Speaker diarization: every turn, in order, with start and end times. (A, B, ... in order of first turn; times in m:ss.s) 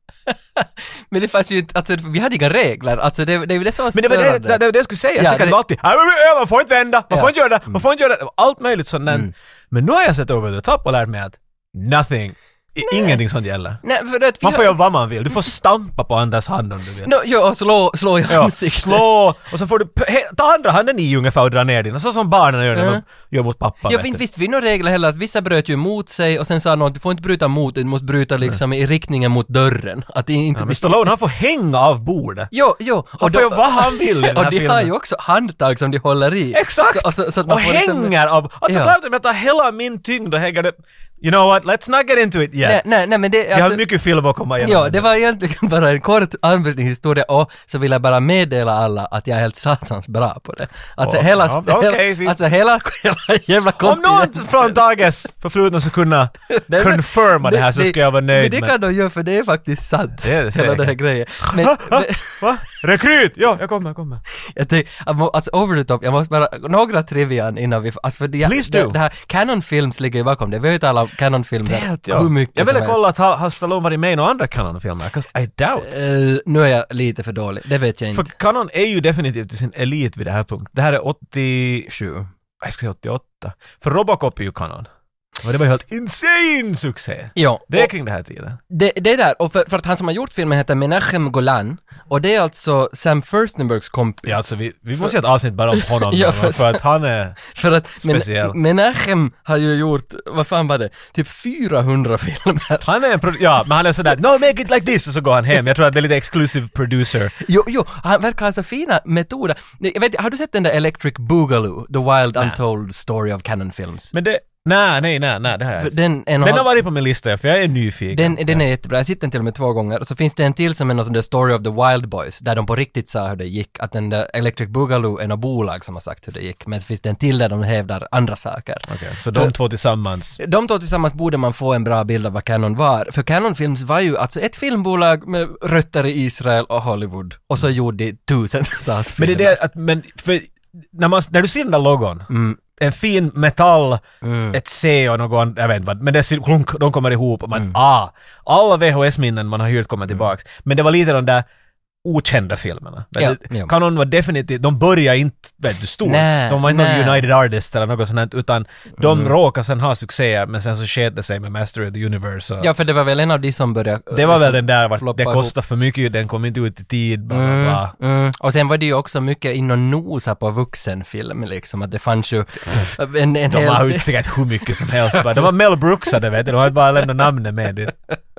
0:00.3-0:04.6 A
0:03.9-0:13.8 B
0:05.2-0:05.6 A
0:07.1-0:07.8 A
0:12.9-0:13.2 A
0:13.8-0:14.8 A
0:14.4-0:17.1 B
0:17.0-0:19.0 A
0:18.3-0:24.2 B
0:22.7-0:23.0 A
0:23.9-0:31.1 A
0:30.6-0:32.5 B
0:32.5-0:38.1 A
0:33.2-0:34.9 B
0:36.5-0:42.8 B
0:38.7-0:39.0 A
0:42.6-0:43.8 A
0:43.5-0:45.0 B
0:44.6-0:54.8 A
0:51.0-0:52.4 B
0:53.8-0:58.7 B
0:56.5-1:02.7 A
1:00.2-1:04.2 B
1:04.6-1:13.0 A
1:08.4-1:09.0 B
1:11.7-1:15.9 B
1:15.8-1:18.3 A
1:18.1-1:21.9 B
1:21.9-1:22.3 A
1:22.6-1:24.9 B
1:25.4-1:28.6 B
1:27.4-1:27.9 A
1:28.7-1:35.2 A
1:34.3-1:37.4 B
1:35.7-1:36.8 A
1:37.5-1:42.9 A
1:38.0-1:38.6 B
1:42.8-1:47.3 B
1:47.4-1:54.1 A
1:54.1-1:58.6 B
1:55.8-1:56.7 A
1:58.1-2:09.6 A
2:08.9-2:10.4 B
2:10.4-2:19.6 A
2:19.2-2:31.4 B
2:22.3-2:22.6 A
2:24.2-2:24.6 A
2:32.0-2:42.7 B
2:33.2-2:33.7 A
2:36.0-2:37.3 A
2:39.0-2:39.3 A
2:42.6-2:45.5 A
2:44.1-2:47.9 B
2:47.3-2:55.5 A
2:53.5-2:57.9 B